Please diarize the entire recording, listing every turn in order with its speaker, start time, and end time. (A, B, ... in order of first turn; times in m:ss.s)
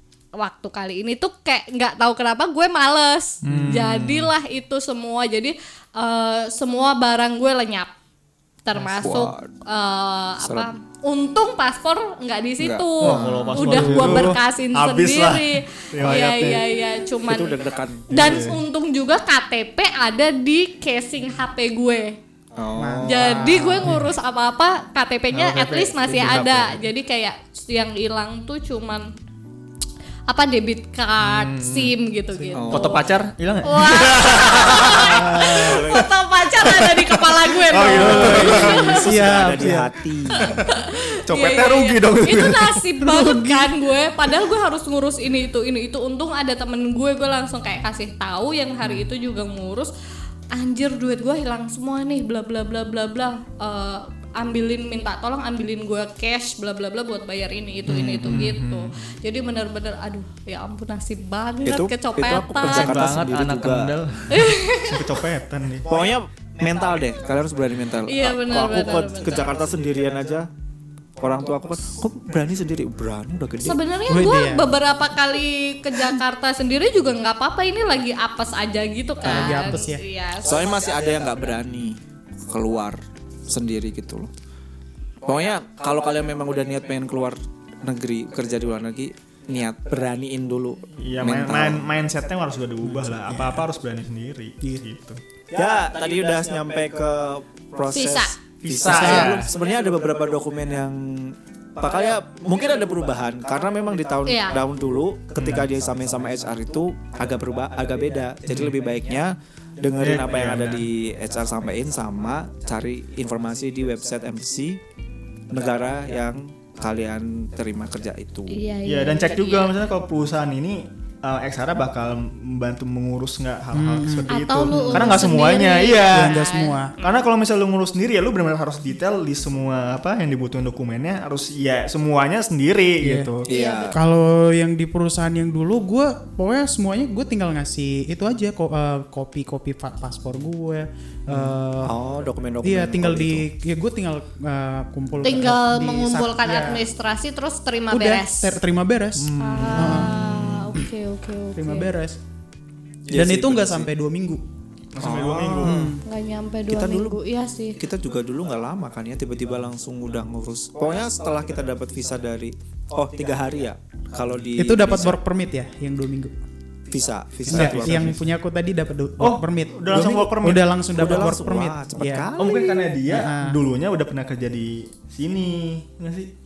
0:00.4-0:07.9 A
0:03.4-0:04.3 B
0:08.6-0:22.2 A
0:08.8-0:09.5 C
0:10.4-0:10.7 C
0:12.6-0:14.0 C
0:13.0-0:16.6 B
0:13.6-0:14.4 D
0:17.2-0:18.5 C
0:18.1-0:18.6 B
0:22.5-0:23.8 C
0:22.8-0:24.0 D
0:23.0-0:29.1 A
0:25.3-0:26.8 B
0:30.3-0:33.1 A
0:31.2-0:31.9 B
0:32.5-0:33.0 C
0:32.7-0:36.0 B
0:33.6-0:39.1 A
0:34.7-0:36.1 C
0:35.1-0:35.6 D
0:36.6-0:37.1 B
0:37.7-0:39.0 B
0:37.7-0:40.5 C
0:38.1-0:39.9 D
0:40.3-0:49.9 A
0:40.5-0:42.8 B
0:43.0-0:43.7 D
0:50.5-1:03.0 A
0:57.9-0:58.5 C
0:58.2-0:59.0 B
1:01.6-1:03.9 C
1:02.6-1:05.9 B
1:04.3-1:05.1 A
1:05.8-1:10.5 C
1:08.1-1:09.5 A
1:11.2-1:13.8 C
1:13.6-1:20.7 A
1:14.1-1:14.7 D
1:19.2-1:19.8 C
1:19.2-1:20.0 D
1:20.4-1:24.3 C
1:25.2-1:31.8 C
1:31.0-1:35.2 B
1:32.8-1:33.6 D
1:35.5-1:54.8 C
1:37.9-1:38.4 A
1:38.6-1:39.5 B
1:38.8-1:39.4 D
1:44.2-1:44.6 A
1:45.4-1:45.7 B
1:50.0-1:50.9 B
1:55.5-1:58.6 C
1:58.5-1:59.7 A
1:58.8-2:06.5 B
2:03.7-2:05.2 D
2:04.3-2:06.8 A
2:06.1-2:06.9 D
2:07.0-2:13.5 B
2:13.0-2:13.3 D
2:13.5-2:14.0 C
2:13.5-2:14.0 A
2:13.9-2:22.0 D
2:21.3-2:23.5 C
2:22.6-2:26.8 D
2:25.2-2:28.6 A
2:27.9-2:30.2 D
2:29.2-2:30.4 B
2:29.4-2:31.9 A
2:31.5-2:32.2 D
2:33.1-2:33.9 C
2:33.1-2:34.4 D
2:34.9-2:35.9 B
2:35.0-2:35.9 C
2:35.6-2:36.0 D
2:36.0-2:37.8 A
2:36.7-2:37.2 C
2:37.8-2:45.2 C
2:44.6-2:46.3 D
2:46.9-2:48.3 C
2:47.5-2:52.3 D
2:47.5-2:48.1 B
2:49.2-2:51.3 B
2:50.9-2:52.8 C
2:52.4-2:56.3 B
2:53.0-2:53.6 D